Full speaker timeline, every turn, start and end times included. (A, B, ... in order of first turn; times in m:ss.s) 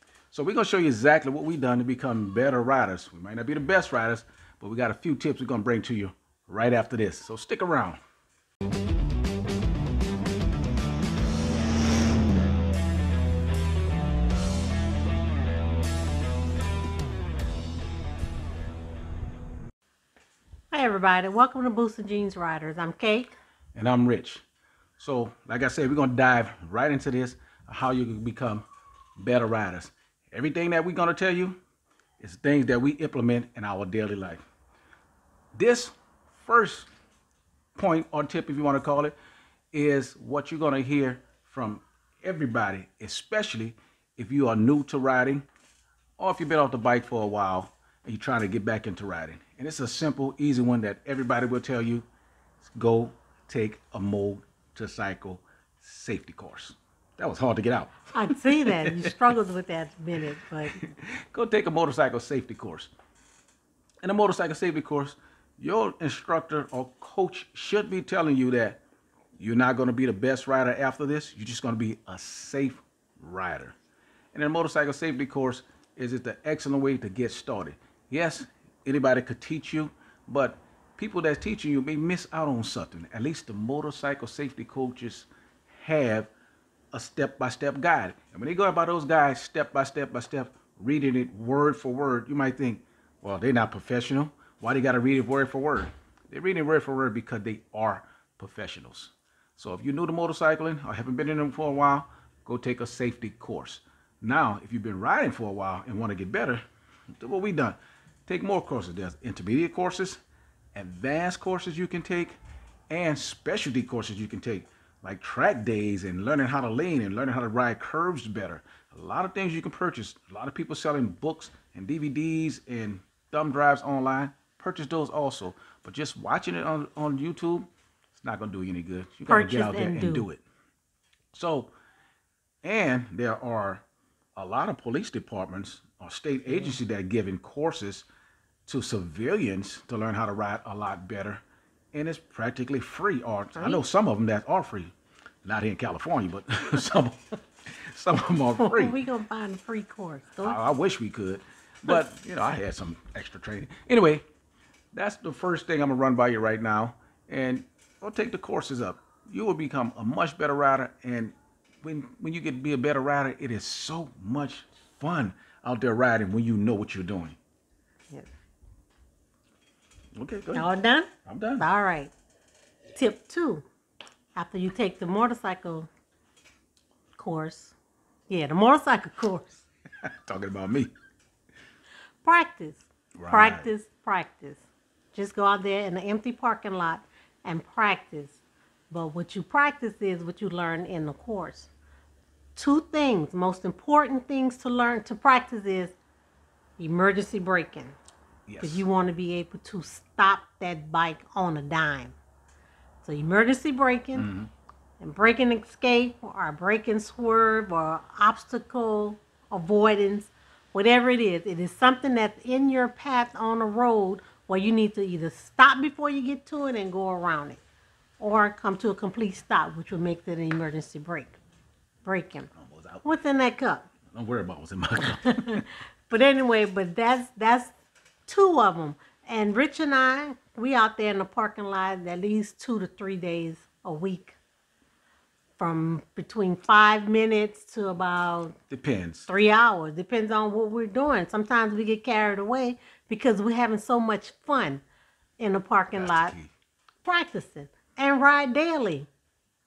0:00.3-0:08.0 A
0:20.7-0:23.3 B
0:23.8-0:24.4 A
0:25.0-0:28.6 A
0:29.2-0:31.6 A
0:32.2-0:34.4 A
0:35.6-0:36.9 A
0:37.8-0:39.2 A
0:39.7-0:45.5 A
0:46.2-0:52.1 A
0:52.6-0:59.1 A
0:58.1-1:00.8 B
1:00.7-1:02.9 A
1:04.0-1:08.8 A
1:09.4-1:13.8 A
1:14.3-1:26.3 A
1:26.9-1:46.6 A
1:47.2-1:50.2 A
1:50.8-1:52.4 A
1:52.9-2:10.4 A
2:09.3-2:10.3 B
2:11.3-2:11.7 A
2:12.6-2:13.8 A
2:14.4-2:18.1 A
2:16.5-2:16.8 B
2:18.7-2:21.4 A
2:21.9-2:24.9 A
2:23.6-2:23.8 B
2:25.4-2:29.0 A
2:28.6-2:30.6 B
2:30.4-2:34.2 A
2:34.9-2:47.4 A
2:50.2-2:50.7 A
2:50.5-2:52.1 B
2:51.3-2:51.7 A
2:53.0-2:53.6 B
2:54.4-2:55.9 B
2:57.2-2:57.8 B
2:58.3-2:59.6 B
3:00.0-3:00.9 A
3:02.2-3:11.7 B
3:03.2-3:03.7 A
3:12.6-3:16.0 B
3:16.8-3:18.0 B
3:18.5-3:18.8 A
3:18.6-3:22.2 B
3:23.0-3:24.3 B
3:24.2-3:24.5 A
3:25.0-3:37.6 B
3:38.2-3:41.4 B
3:42.0-3:42.5 B
3:42.5-3:43.0 A
3:43.0-3:43.9 B
3:44.1-3:45.6 A
3:45.2-3:47.7 B
3:48.3-3:54.4 B
3:55.6-3:58.6 B
3:58.7-3:59.3 A
3:59.3-4:04.8 B
4:05.4-4:06.4 B
4:05.9-4:06.5 A
4:07.0-4:09.1 B